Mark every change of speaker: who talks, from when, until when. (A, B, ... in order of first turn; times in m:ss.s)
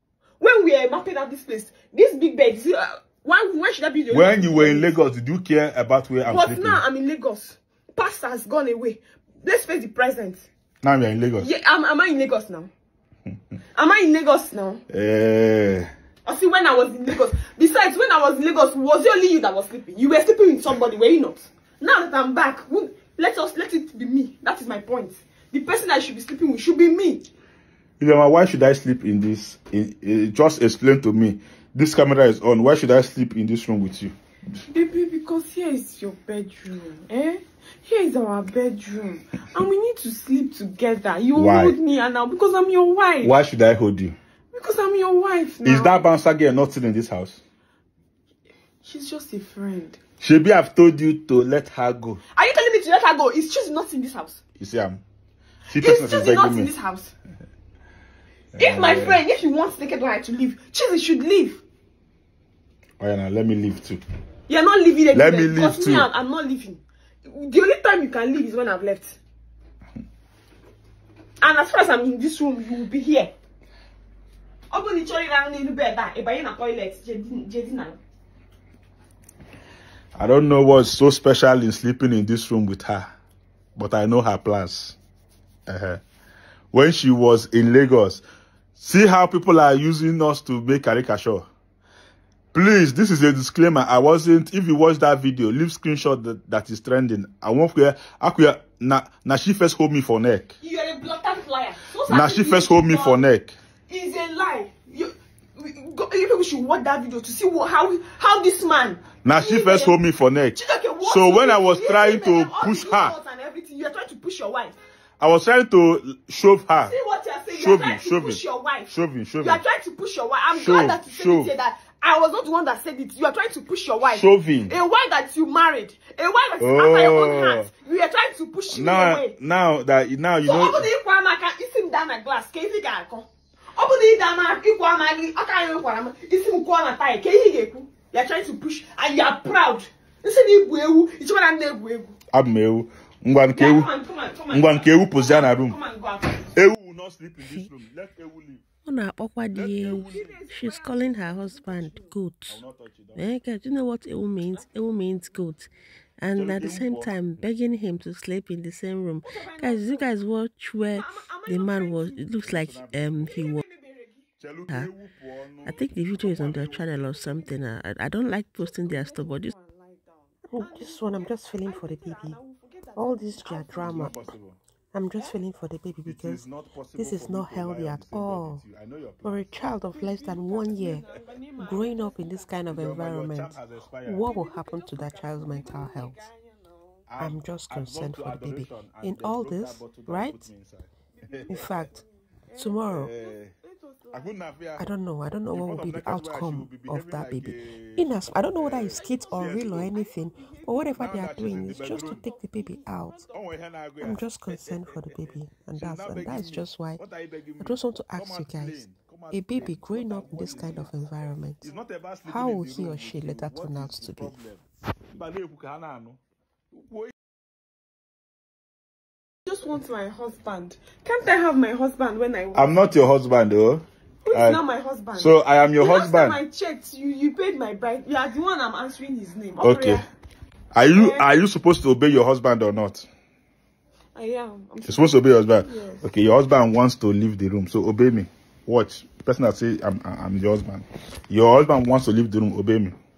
0:00.4-0:05.0 A
0:04.1-0:06.8 B
0:06.2-0:10.4 A
0:10.8-0:11.5 B
0:11.4-0:12.7 A
0:13.7-0:14.8 A
0:14.9-0:15.9 B
0:16.2-0:27.2 A
0:28.0-0:34.1 B
0:34.6-0:43.4 A
0:41.3-0:41.8 B
0:43.2-0:44.2 B
0:44.5-0:46.1 A
0:45.6-0:47.4 B
0:48.8-0:50.0 A
0:50.2-0:52.2 B
0:52.3-0:54.4 A
0:54.6-0:55.0 B
0:55.7-0:56.7 B
0:55.7-0:57.1 A
0:58.5-0:59.2 B
0:58.5-1:01.6 A
1:03.0-1:04.0 B
1:04.5-1:09.2 A
1:05.1-1:06.1 B
1:11.4-1:13.3 A
1:14.7-1:18.0 A
1:20.2-1:23.1 B
1:23.8-1:25.0 B
1:25.7-1:26.0 B
1:26.7-1:28.2 B
1:28.8-1:31.5 B
1:32.5-1:40.5 B
1:40.6-1:43.2 A
1:42.1-1:43.5 B
1:43.9-1:50.0 A
1:49.2-1:53.2 B
1:50.5-1:54.8 A
1:55.2-1:56.9 B
1:56.8-2:09.3 A
1:57.5-1:59.6 B
2:00.5-2:01.5 B
2:04.0-2:04.8 B
2:06.6-2:07.7 B
2:08.7-2:10.9 B
2:10.4-2:22.1 A
2:22.3-2:23.9 B
2:23.5-2:26.5 A
2:24.5-2:25.8 B
2:26.5-2:28.7 B
2:27.4-2:27.7 C
2:28.8-2:32.6 C
2:29.5-2:30.4 B
2:30.0-2:32.1 A
2:32.5-2:33.2 B
2:33.1-2:43.6 C
2:36.3-2:37.1 B
2:39.2-2:40.2 A
2:40.9-2:42.4 A
2:42.3-2:43.4 B
2:43.1-2:44.2 A
2:44.4-2:47.2 B
2:45.6-2:49.5 C
2:48.6-2:54.2 A
2:50.4-2:52.4 C
2:53.0-2:54.1 C
2:53.7-2:54.6 B
2:54.9-2:58.6 C
2:55.1-2:55.4 A
2:56.0-2:59.7 B
2:59.2-3:06.3 C
2:59.9-3:02.6 A
3:02.7-3:04.4 B
3:04.2-3:07.0 A
3:07.1-3:11.9 B
3:07.2-3:10.5 C
3:11.2-3:14.4 A
3:11.5-3:12.0 C
3:12.6-3:13.1 C
3:12.8-3:13.5 B
3:14.1-3:14.9 B
3:14.8-3:23.2 C
3:15.5-3:19.9 B
3:18.8-3:23.5 A
3:20.9-3:22.2 B
3:23.3-3:25.1 B
3:24.0-3:27.0 C
3:25.7-3:31.1 B
3:27.6-3:31.6 C
3:31.6-3:36.2 B
3:32.2-3:34.4 C
3:36.7-3:37.1 B
3:39.4-3:42.7 A
3:42.5-3:44.6 B
3:44.2-3:50.0 A
3:45.2-3:46.4 B
3:49.6-3:50.0 B
3:50.7-3:53.0 B
3:50.9-3:51.4 A
3:54.1-3:56.0 A
3:54.8-4:03.0 B